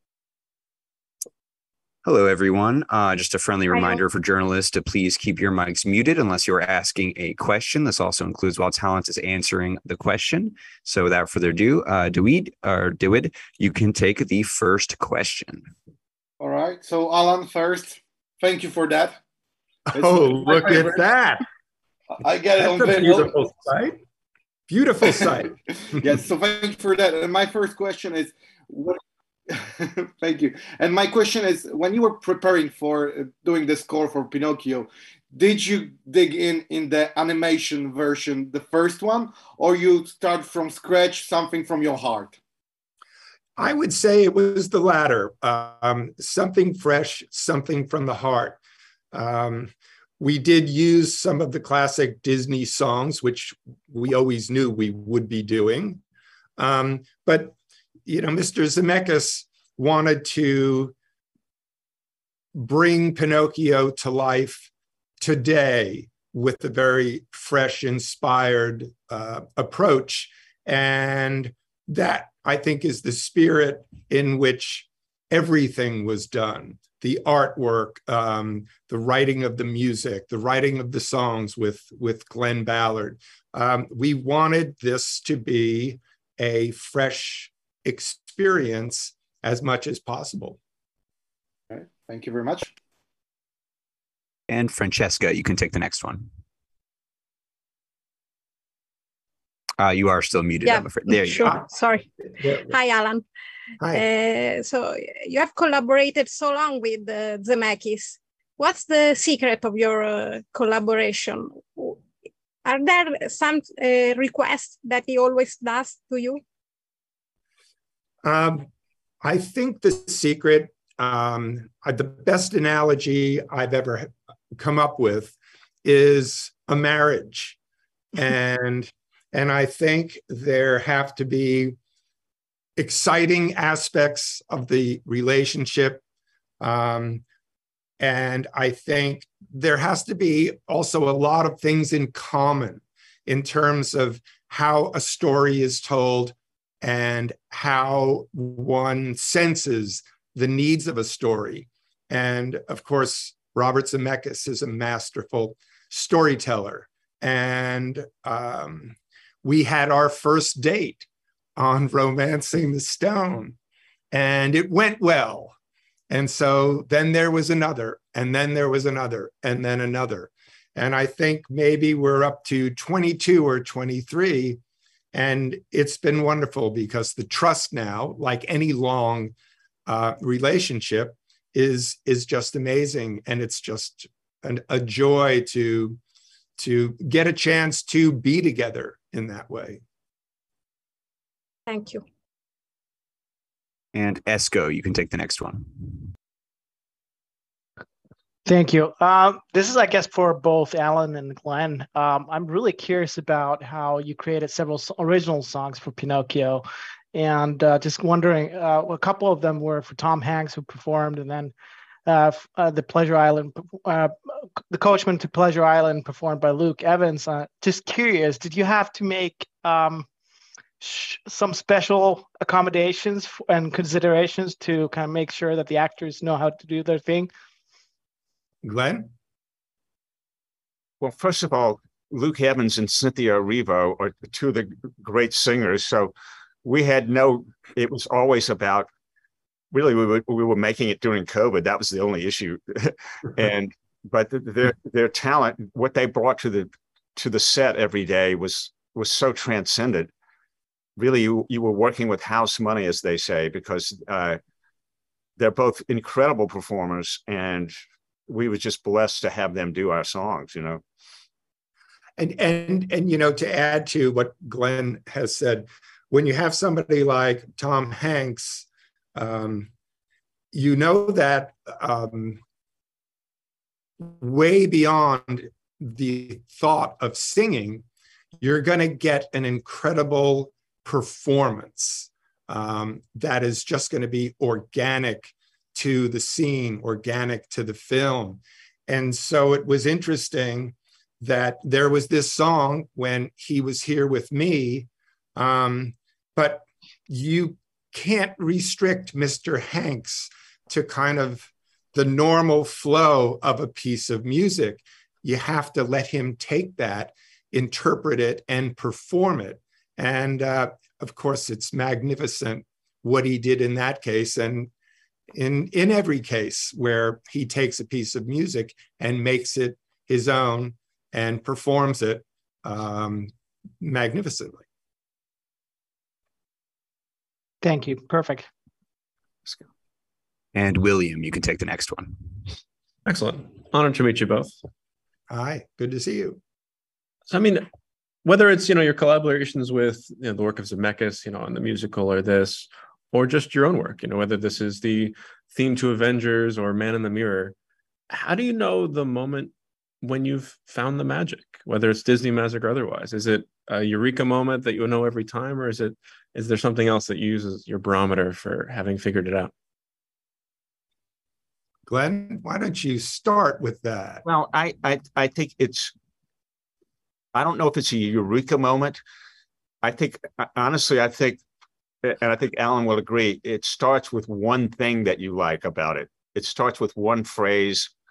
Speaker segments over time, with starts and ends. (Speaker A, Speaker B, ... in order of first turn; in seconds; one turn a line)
Speaker A: 2.0-15.7
Speaker B: 3.7-4.0
Speaker C: 16.4-19.2
Speaker D: 19.9-21.4
Speaker C: 19.9-21.1
Speaker C: 22.2-23.3
Speaker D: 22.6-24.0
Speaker D: 24.7-25.5
Speaker C: 25.9-29.0
Speaker C: 29.5-42.4
Speaker D: 43.6-48.6
Speaker D: 49.1-56.0
Speaker D: 56.6-57.5
Speaker D: 58.0-60.9
Speaker D: 62.5-64.7
Speaker D: 65.2-90.6
Speaker C: 91.7-92.7
Speaker A: 94.5-96.3
Speaker A: 99.8-101.5
Speaker B: 100.6-102.1
Speaker D: 102.4-102.7
Speaker B: 102.6-103.2
Speaker B: 103.9-112.0
Speaker B: 112.6-116.4
Speaker D: 118.2-118.7
Speaker D: 119.2-127.6
Speaker D: 128.1-131.8
Speaker D: 132.8-136.0
Speaker D: 136.6-137.2
Speaker D: 138.0-163.6
Speaker D: 164.1-165.5
Speaker D: 166.1-174.6
Speaker D: 175.1-179.3
Speaker D: 179.9-186.0
Speaker D: 186.6-189.8
Speaker B: 191.7-192.0
Speaker A: 193.9-196.0
Speaker E: 198.4-211.5
Speaker E: 212.1-214.1
Speaker E: 214.7-220.1
Speaker E: 220.8-227.3
Speaker D: 228.6-229.1
Speaker F: 231.0-236.1
Speaker F: 236.6-238.9
Speaker F: 239.7-250.1
Speaker F: 251.0-254.4
Speaker F: 255.4-257.7
Speaker F: 258.3-260.8
Speaker D: 262.2-269.7
Speaker D: 270.5-272.4
Speaker D: 274.0-277.8
Speaker D: 278.4-314.7
Speaker D: 315.3-324.6
Speaker E: 327.6-328.5
Speaker A: 330.5-332.5
Speaker G: 333.1-334.6
Speaker D: 335.3-336.4
Speaker G: 337.3-337.6
Speaker G: 338.2-347.6
Speaker G: 348.1-359.5
Speaker D: 361.9-364.2
Speaker F: 364.2-365.9
Speaker F: 367.3-369.0
Speaker F: 369.8-371.4
Speaker F: 372.0-377.9